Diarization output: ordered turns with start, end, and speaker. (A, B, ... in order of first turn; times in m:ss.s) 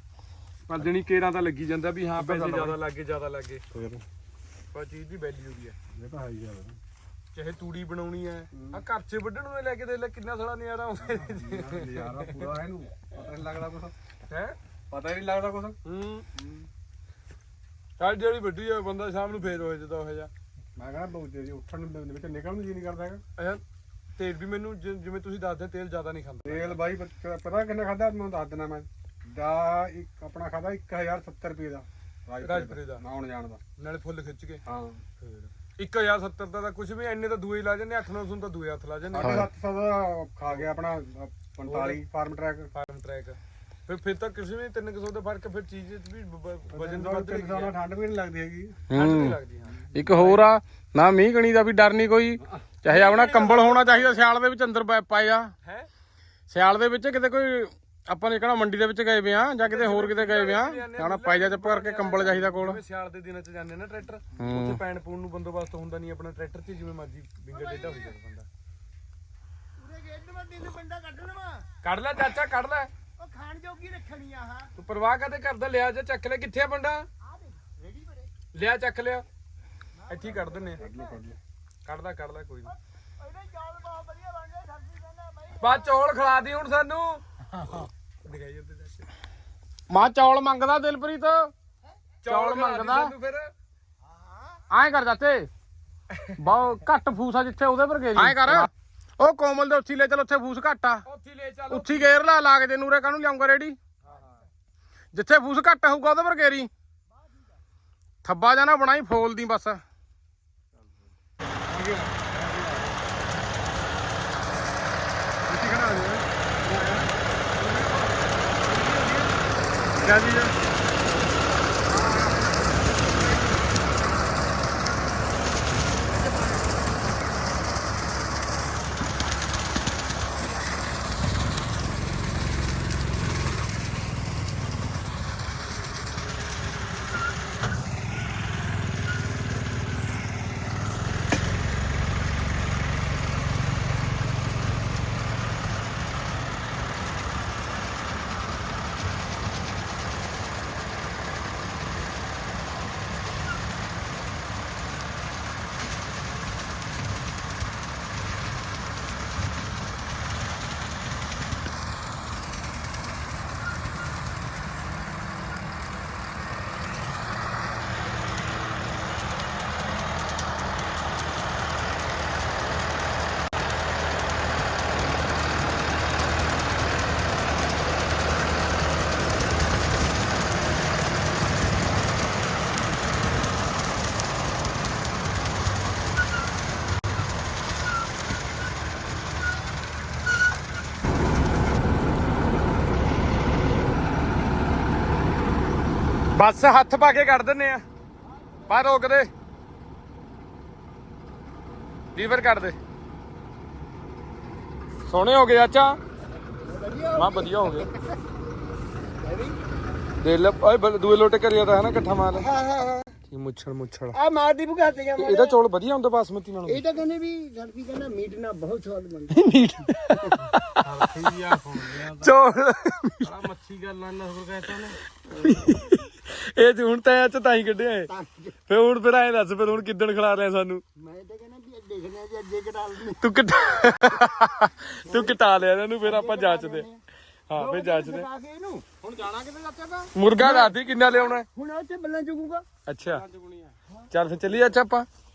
0:00.7-0:03.6 A
0:02.3-0:02.7 B
0:03.7-0:04.0 C
0:04.7-0:05.8 A
0:05.9-0:06.8 C
0:07.3-0:12.5 A
0:08.5-0:08.8 C
0:11.0-0:13.9 C
0:14.3-0:14.6 A
0:14.9-0:15.8 C
0:15.8-0:16.3 A
0:18.0-0:20.3 A
0:20.8-0:23.2 C
0:23.4-0:23.6 A
0:24.2-0:26.8 A
0:26.4-0:33.6 C
0:32.4-0:33.0 A
0:33.8-0:34.6 A
0:34.6-0:35.0 C
0:35.2-0:39.4 A
0:39.1-0:42.7 C
0:39.2-0:39.5 B
0:41.6-0:42.0 A
0:42.7-0:47.7 A
0:46.7-0:48.8 C
0:48.9-0:49.4 B
0:48.9-0:50.5 A
0:49.9-0:55.5 B
0:52.9-0:54.2 A
0:55.6-0:55.9 A
0:56.5-1:02.8 B
0:59.6-1:08.5 A
1:04.4-1:04.8 B
1:07.5-1:08.0 D
1:09.8-1:11.7 D
1:11.8-1:12.9 A
1:13.2-1:14.7 D
1:14.7-1:17.1 A
1:17.2-1:18.3 D
1:18.5-1:19.2 A
1:20.1-1:20.9 A
1:20.2-1:21.0 D
1:20.8-1:21.4 C
1:21.8-1:22.7 A
1:23.2-1:25.8 D
1:25.5-1:29.1 A
1:29.9-1:31.5 B
1:32.2-1:33.5 A
1:32.2-1:33.1 B
1:34.7-1:35.5 B
1:36.1-1:36.4 A
1:36.4-1:41.0 B
1:38.2-1:38.7 A
1:41.0-1:42.2 A
1:41.7-1:43.8 B
1:45.1-1:46.7 B
1:48.2-1:49.8 B
1:51.7-1:53.1 C
1:55.4-1:58.1 C
1:58.8-1:59.3 C
2:00.0-2:00.5 B
2:02.0-2:02.4 C
3:16.3-3:17.8 A
3:18.7-3:19.3 A
3:22.1-3:22.8 A
3:25.0-3:26.0 A
3:26.6-3:28.2 D
3:27.1-3:27.9 A
3:29.2-3:29.6 D
3:30.2-3:32.5 A
3:32.5-3:33.1 D
3:33.3-3:34.2 A
3:34.2-3:35.6 D
3:35.1-3:36.9 A
3:36.6-3:39.4 D
3:39.3-3:40.7 A
3:40.8-3:42.3 B
3:42.2-3:43.3 A
3:43.2-3:45.0 B
3:45.3-3:48.1 A
3:48.1-3:48.6 D
3:48.7-3:50.8 A
3:51.0-3:53.2 D
3:53.1-3:56.9 A
3:54.9-3:55.3 D
3:56.0-3:57.0 D
3:57.5-3:58.3 A
3:57.5-3:58.8 D
3:59.0-4:00.1 B
4:00.1-4:01.5 A
4:00.4-4:02.6 D
4:02.8-4:03.2 A
4:03.0-4:03.8 B
4:04.1-4:05.1 A